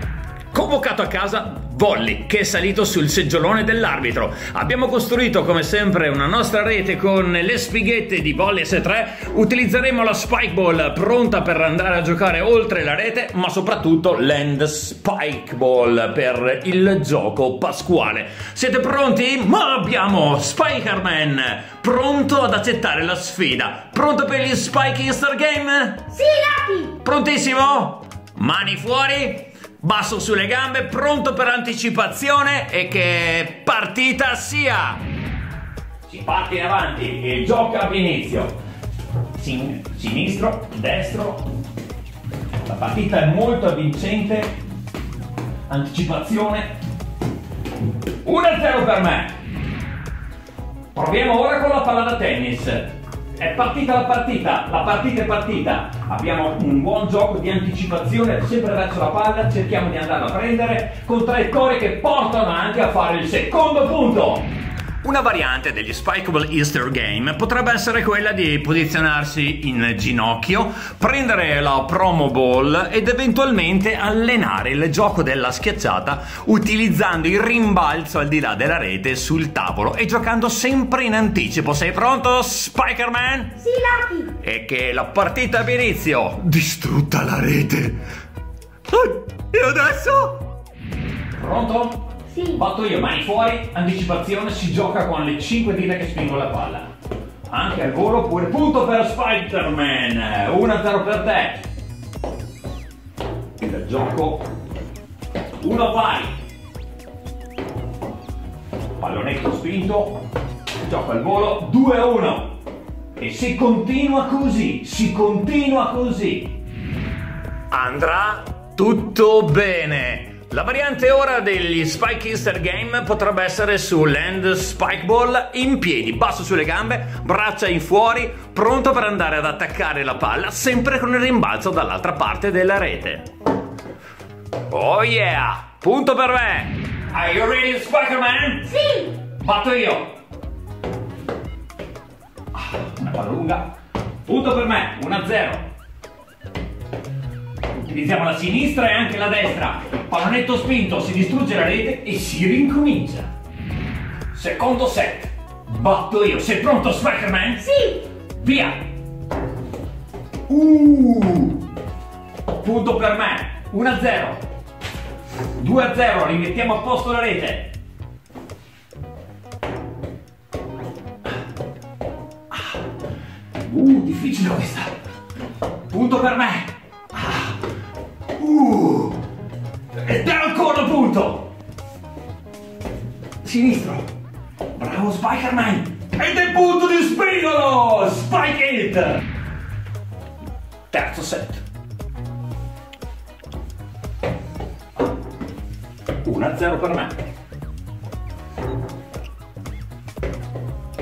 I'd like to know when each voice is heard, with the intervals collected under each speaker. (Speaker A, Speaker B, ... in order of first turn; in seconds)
Speaker A: 0.5-26.1, 27.0-35.0, 36.0-38.5, 39.4-41.4, 42.6-44.5, 45.7-46.7, 48.2-49.3, 50.9-64.5, 65.0-83.6, 84.4-88.0, 88.9-90.4, 91.4-96.9, 97.5-101.6, 103.6-104.5, 105.6-106.3, 109.0-110.2, 110.8-112.5, 113.2-116.5, 117.7-133.3, 134.7-140.1, 142.5-143.7, 144.2-145.6, 147.8-153.3, 154.3-157.7, 158.3-158.8, 160.5-161.6, 162.6-164.4, 165.6-167.7, 173.6-174.9, 175.9-177.6, 178.3-179.2, 179.9-181.5, 183.4-184.1, 184.7-189.2, 190.9-191.6, 196.2-197.1
Speaker B: 26.1-26.9, 83.6-84.3, 92.3-92.6, 138.7-139.1, 157.6-158.0